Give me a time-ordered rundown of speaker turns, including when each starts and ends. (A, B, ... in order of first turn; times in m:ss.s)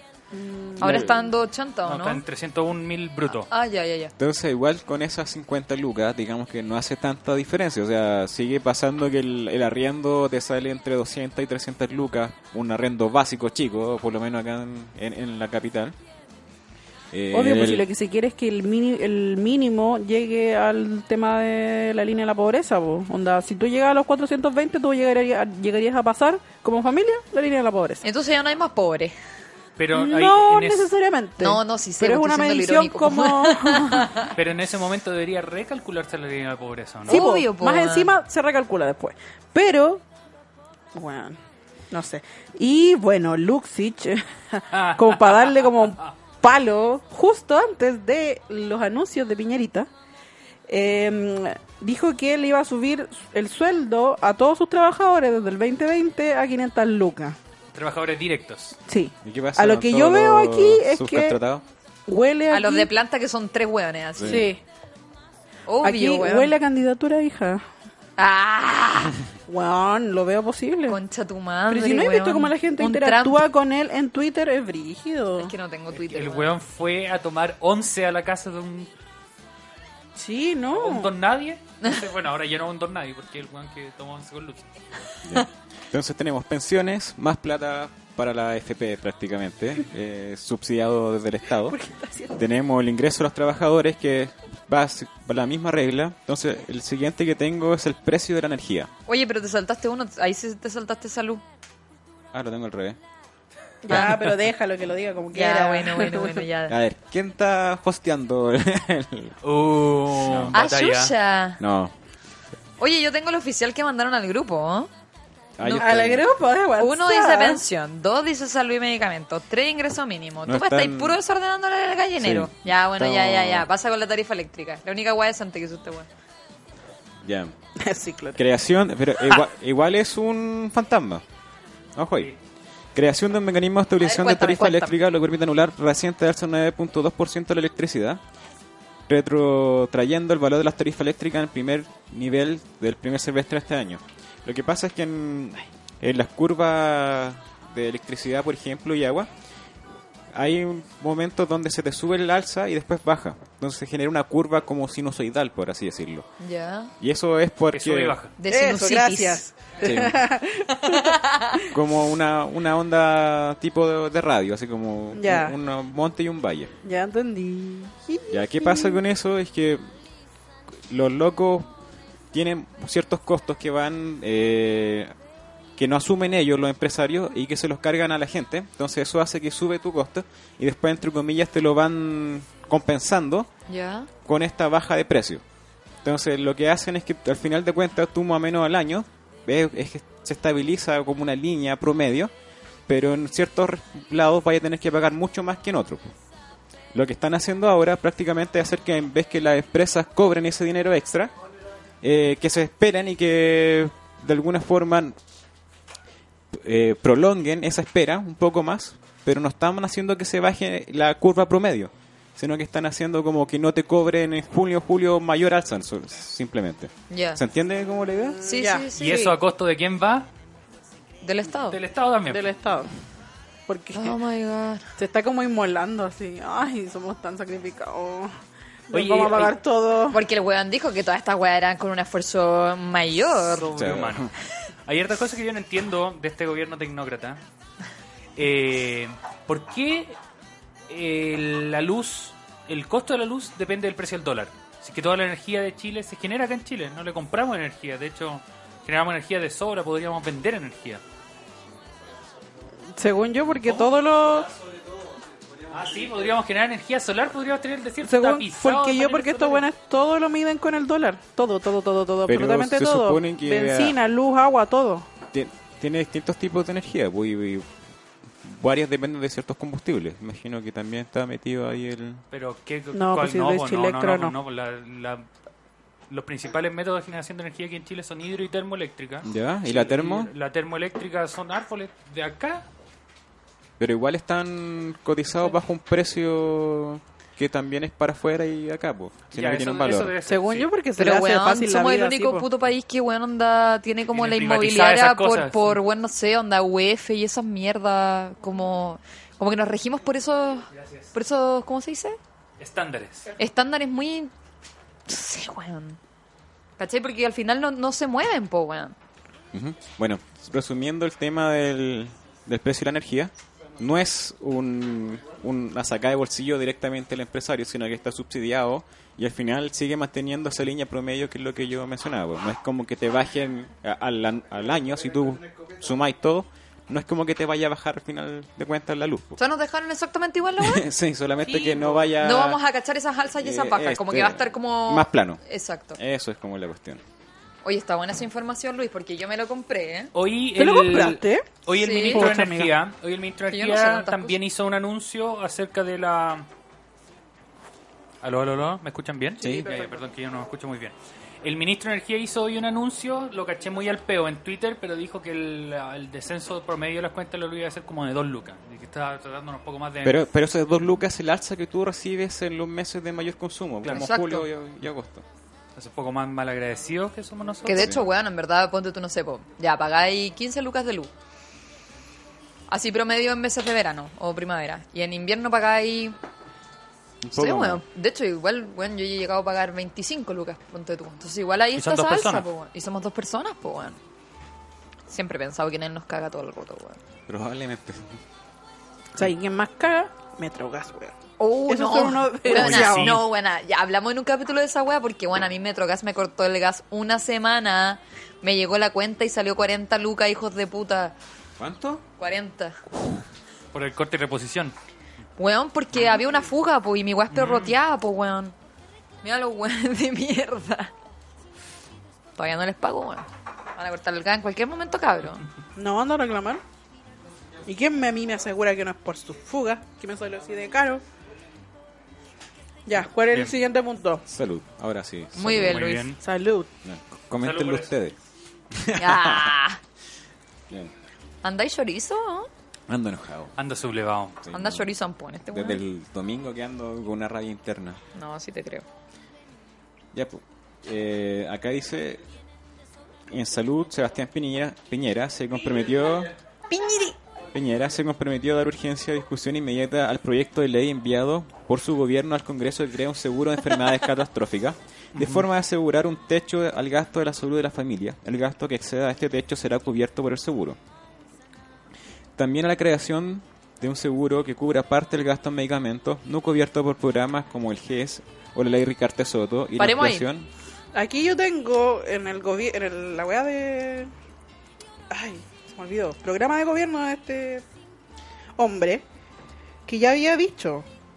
0:00.3-0:01.2 A
0:00.8-0:02.2 B
0:00.8-0:01.1 C
0:01.8-0:03.5 D
0:03.3-0:04.1 B
0:04.2-0:16.0 C
0:17.1-0:17.9 C
0:17.3-0:28.0 A
0:28.0-0:29.2 B
0:29.8-0:30.9 D
0:29.9-0:34.2 A
0:31.4-0:34.3 B
0:34.4-0:37.2 D
0:37.1-0:40.0 A
0:37.1-0:38.1 B
0:40.9-0:41.4 A
0:41.9-0:49.9 A
0:44.7-0:45.4 D
0:50.7-0:57.4 A
0:57.7-0:58.8 D
0:58.9-1:01.4 A
0:59.2-1:01.6 C
1:02.1-1:02.9 A
1:02.5-1:04.5 B
1:04.2-1:04.5 C
1:04.3-1:04.6 A
1:05.7-1:06.6 B
1:05.8-1:07.6 A
1:08.2-1:09.2 B
1:09.5-1:11.0 A
1:10.9-1:13.4 B
1:11.7-1:15.5 A
1:15.4-1:16.5 B
1:15.9-1:18.9 D
1:20.2-1:21.1 A
1:20.7-1:24.7 D
1:25.2-1:31.8 C
1:31.7-1:32.4 A
1:32.4-1:38.9 C
1:39.1-1:41.4 B
1:42.3-1:43.0 C
1:43.8-1:46.5 A
1:43.9-1:44.1 B
1:45.3-1:46.8 B
1:46.7-1:49.4 C
1:49.4-1:51.1 D
1:50.2-1:50.6 C
1:50.5-1:51.6 B
1:51.6-1:51.9 C
1:52.8-1:54.9 B
1:55.6-1:56.3 C
1:55.6-1:55.9 B
1:55.8-1:57.6 A
1:56.8-2:06.1 B
2:00.4-2:01.2 C
2:02.2-2:03.7 C
2:07.2-2:07.5 C
2:07.8-2:08.4 A
2:08.4-2:11.2 C
2:12.0-2:12.3 C
2:13.0-2:18.2 C
2:14.0-2:14.9 B
2:19.1-2:29.3 C
2:30.3-2:36.3 C
2:36.4-2:36.9 B
2:37.0-2:38.2 C
2:37.7-2:38.3 D
2:38.4-2:39.4 B
2:38.5-2:41.6 A
2:39.8-2:40.2 C
2:40.8-2:41.6 B
2:41.7-2:46.7 C
2:45.1-2:45.6 A
2:46.8-2:49.0 A
2:48.3-2:49.8 C
2:50.9-2:51.7 C
2:52.3-2:55.1 C
2:55.8-3:03.5 C
3:03.7-3:04.1 B
3:04.2-3:05.4 C
3:06.0-3:12.3 C
3:12.9-3:16.1 C
3:16.9-3:21.3 C
3:22.0-3:25.2 C
3:26.5-3:38.4 C
3:37.1-3:37.4 B
3:38.4-3:39.4 B
3:38.5-3:38.9 A
3:39.0-3:40.3 D
3:41.2-3:41.8 B
3:41.7-3:42.5 D
3:42.3-3:42.9 A
3:43.7-3:44.2 A
3:43.9-3:44.9 B
3:45.0-3:48.4 A
3:48.9-3:50.2 A
3:48.9-3:49.6 D
3:50.1-3:53.7 B
3:53.5-3:54.3 D
3:53.8-3:54.3 C
3:54.9-3:57.4 D
3:58.4-4:00.2 D
4:00.9-4:11.0 D
4:13.0-4:14.5 A
4:15.7-4:19.7 D
4:18.0-4:25.1 A
4:22.3-4:24.0 C
4:25.3-4:27.7 C
4:28.4-4:32.2 C
4:32.3-4:35.3 D
4:32.9-4:34.4 A
4:36.1-4:42.7 D
4:39.2-4:40.3 C
4:43.8-4:50.1 C
4:49.3-4:50.7 D
4:50.2-4:52.5 A
4:51.0-5:02.2 B
4:54.1-4:55.8 D
5:02.6-5:03.3 D
5:03.4-5:04.3 B
5:05.1-5:06.0 B
5:06.8-5:09.0 B
5:09.5-5:29.4 C
5:29.4-5:30.9 B
5:30.6-5:32.6 C
5:31.6-5:31.9 D
5:32.1-5:36.0 B
5:33.4-5:35.4 C
5:36.0-5:37.0 C
5:37.6-5:40.1 B
5:40.2-5:46.5 D
5:40.6-5:42.7 A
5:41.7-5:42.3 B
5:43.5-5:44.4 B
5:48.2-6:00.3 D
5:49.4-5:49.7 C
5:49.4-5:49.9 A
6:00.0-6:05.2 C
6:03.8-6:04.2 D
6:03.9-6:04.5 B
6:05.8-6:07.9 D
6:07.6-6:11.1 B
6:07.7-6:08.0 C
6:12.7-6:16.2 B
6:17.2-6:17.8 C
6:17.3-6:24.0 B
6:21.8-6:22.4 D
6:25.1-6:27.0 B
6:27.3-6:28.2 C
6:29.2-6:31.2 A
6:31.4-6:41.2 B
6:31.7-6:33.2 A
6:32.5-6:33.2 D
6:41.6-6:42.0 C
6:42.2-6:42.8 B
6:43.7-6:44.7 D
6:45.4-6:48.6 B
6:47.3-6:47.7 D
6:49.2-6:50.9 B
6:52.4-6:55.4 B
6:55.8-6:56.6 A
6:57.6-7:01.0 A
7:02.9-7:04.2 A
7:04.3-7:05.8 C
7:05.4-7:06.1 B
7:05.5-7:06.2 D
7:06.2-7:06.7 A
7:06.8-7:08.2 C
7:07.4-7:08.0 D
7:08.7-7:09.5 C
7:09.0-7:09.8 B
7:11.4-7:12.5 B
7:12.9-7:13.5 C
7:13.6-7:14.4 D
7:14.4-7:14.9 C
7:14.5-7:15.8 B
7:15.5-7:18.0 C
7:18.2-7:18.9 B
7:20.1-7:22.2 C
7:23.3-7:26.3 C
7:26.7-7:27.1 B
7:27.5-7:40.8 C
7:35.2-7:35.4 D
7:42.4-7:50.5 C
7:49.8-7:50.3 B
7:50.9-7:54.1 A
7:55.1-7:57.6 A
7:58.6-7:59.0 A
7:59.9-8:00.9 A